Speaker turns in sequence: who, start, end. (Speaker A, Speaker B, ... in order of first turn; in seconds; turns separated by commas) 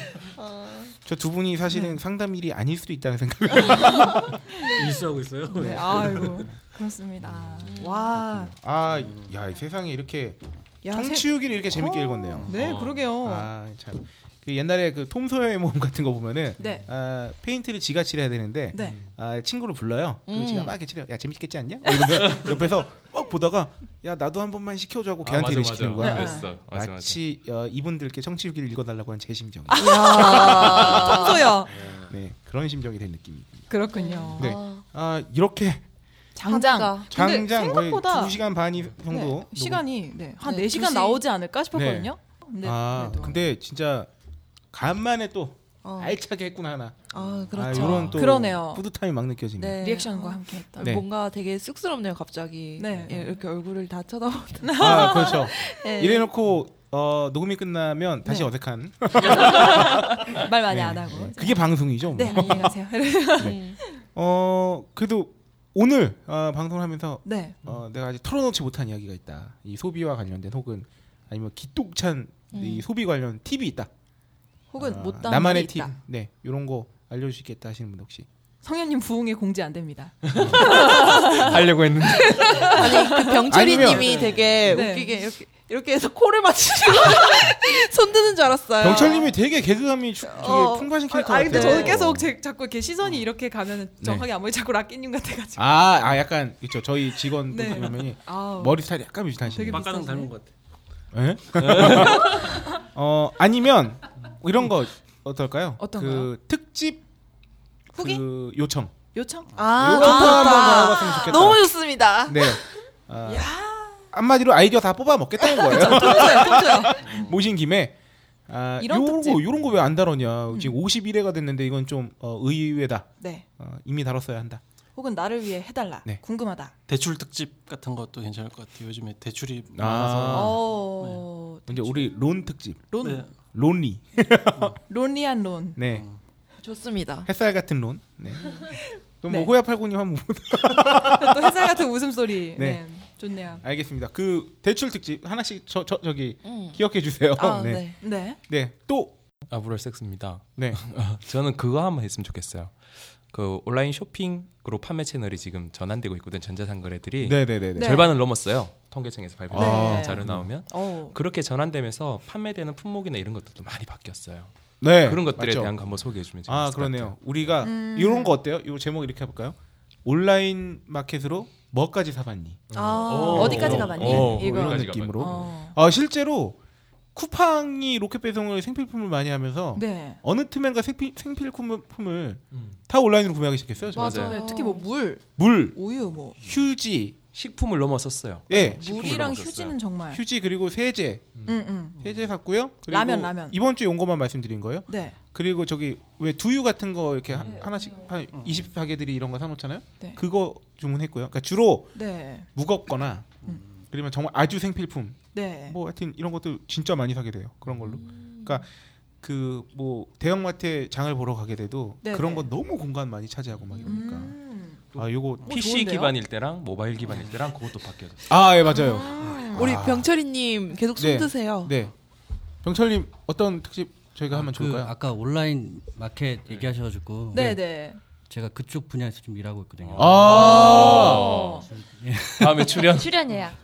Speaker A: 0.4-0.9, Speaker B: 1.1-4.4, Speaker C: 3.7-4.7, Speaker D: 4.7-6.5, Speaker C: 5.5-8.5, Speaker B: 5.9-6.3, Speaker A: 7.6-8.2, Speaker B: 8.3-12.6, Speaker D: 9.0-9.3, Speaker C: 10.8-13.5, Speaker E: 12.5-13.0, Speaker B: 13.2-31.3, Speaker C: 16.6-16.9, Speaker C: 18.7-19.0, Speaker E: 18.8-19.1, Speaker A: 20.3-20.8, Speaker E: 22.2-22.6, Speaker E: 25.2-27.2, Speaker C: 26.0-26.5, Speaker C: 29.7-31.7, Speaker A: 29.7-31.5, Speaker E: 31.8-32.1, Speaker B: 32.0-33.7, Speaker C: 33.7-34.5, Speaker A: 33.9-34.8, Speaker B: 34.4-35.8, Speaker C: 36.4-38.4, Speaker A: 36.5-37.1, Speaker B: 37.1-39.9, Speaker C: 39.1-43.5, Speaker A: 40.4-41.2, Speaker B: 41.7-44.1, Speaker B: 44.7-49.9, Speaker A: 45.8-46.2, Speaker A: 47.1-48.2, Speaker E: 47.2-48.0, Speaker C: 48.0-48.9, Speaker A: 49.6-56.3, Speaker C: 49.8-50.9, Speaker B: 50.8-51.0, Speaker C: 52.8-53.3, Speaker C: 54.6-55.7, Speaker B: 54.8-62.8, Speaker C: 59.2-63.9, Speaker A: 62.2-62.7, Speaker A: 63.4-63.8, Speaker B: 64.1-73.9, Speaker C: 67.2-67.6, Speaker A: 72.5-72.9, Speaker C: 74.7-75.9, Speaker B: 74.8-78.3, Speaker C: 78.6-81.5, Speaker E: 80.2-82.9, Speaker A: 80.9-81.2, Speaker C: 82.2-83.4, Speaker A: 82.5-89.3, Speaker B: 83.5-84.3, Speaker C: 84.7-85.2, Speaker B: 88.8-92.3, Speaker C: 88.9-89.3, Speaker C: 90.2-95.8, Speaker A: 90.4-92.0, Speaker B: 94.0-94.3, Speaker B: 95.6-99.8, Speaker C: 97.5-98.8, Speaker C: 99.5-100.3, Speaker D: 99.6-100.5, Speaker B: 101.1-107.0, Speaker E: 101.6-102.3, Speaker C: 102.2-102.7, Speaker C: 105.8-106.3, Speaker B: 107.9-109.0, Speaker C: 108.0-108.2, Speaker C: 109.1-111.3, Speaker A: 109.5-112.6, Speaker B: 109.7-111.7, Speaker B: 112.3-113.5, Speaker C: 113.3-113.9, Speaker B: 114.1-118.0, Speaker A: 115.6-116.5, Speaker C: 115.6-117.0, Speaker B: 118.5-124.6, Speaker C: 118.8-119.5, Speaker C: 120.5-120.8, Speaker C: 123.2-123.5, Speaker C: 125.0-126.7, Speaker D: 126.9-131.3, Speaker B: 129.7-130.7, Speaker C: 130.3-132.2, Speaker B: 131.7-134.8, Speaker C: 132.9-133.3, Speaker D: 133.0-133.3, Speaker C: 134.9-135.8, Speaker B: 135.8-136.1, Speaker D: 135.8-136.2, Speaker A: 136.6-137.3, Speaker B: 137.3-141.8, Speaker C: 138.7-139.5, Speaker C: 141.1-143.6, Speaker B: 142.6-142.8, Speaker B: 143.6-149.2, Speaker A: 146.4-146.8, Speaker A: 147.4-148.0, Speaker C: 148.0-148.4, Speaker E: 149.5-167.2, Speaker B: 150.6-150.8, Speaker B: 157.2-158.0, Speaker C: 157.8-158.1, Speaker B: 159.5-160.5, Speaker C: 159.5-161.2, Speaker B: 164.8-165.8, Speaker B: 166.5-172.6, Speaker C: 167.6-168.3, Speaker E: 172.7-175.5, Speaker A: 172.7-174.3, Speaker C: 173.2-175.8, Speaker B: 173.3-176.6, Speaker B: 177.1-184.3, Speaker C: 179.8-180.2, Speaker E: 182.5-182.8, Speaker E: 183.9-184.4, Speaker A: 183.9-184.9, Speaker C: 184.2-186.4, Speaker B: 185.4-185.8, Speaker B: 186.4-187.2, Speaker E: 187.3-189.8, Speaker B: 188.5-189.3, Speaker C: 188.5-190.2, Speaker B: 190.1-191.4, Speaker C: 191.5-192.0, Speaker B: 192.0-202.0, Speaker C: 192.9-193.6, Speaker C: 194.9-195.2, Speaker E: 197.3-197.6, Speaker D: 198.3-198.7, Speaker C: 201.9-202.5, Speaker B: 202.6-203.4, Speaker B: 203.9-208.7, Speaker C: 205.3-205.8, Speaker A: 207.9-208.6, Speaker B: 209.2-214.4, Speaker C: 212.0-212.5, Speaker C: 213.8-214.8, Speaker B: 214.9-215.5, Speaker E: 214.9-218.3, Speaker C: 215.4-216.1, Speaker B: 218.3-220.1, Speaker C: 218.7-219.6, Speaker A: 219.2-221.8, Speaker B: 221.0-221.9, Speaker B: 222.6-224.9, Speaker F: 224.3-227.6, Speaker C: 227.3-228.0, Speaker F: 228.3-232.9, Speaker E: 229.9-231.6, Speaker B: 230.0-231.3, Speaker C: 230.3-231.7, Speaker E: 232.4-233.4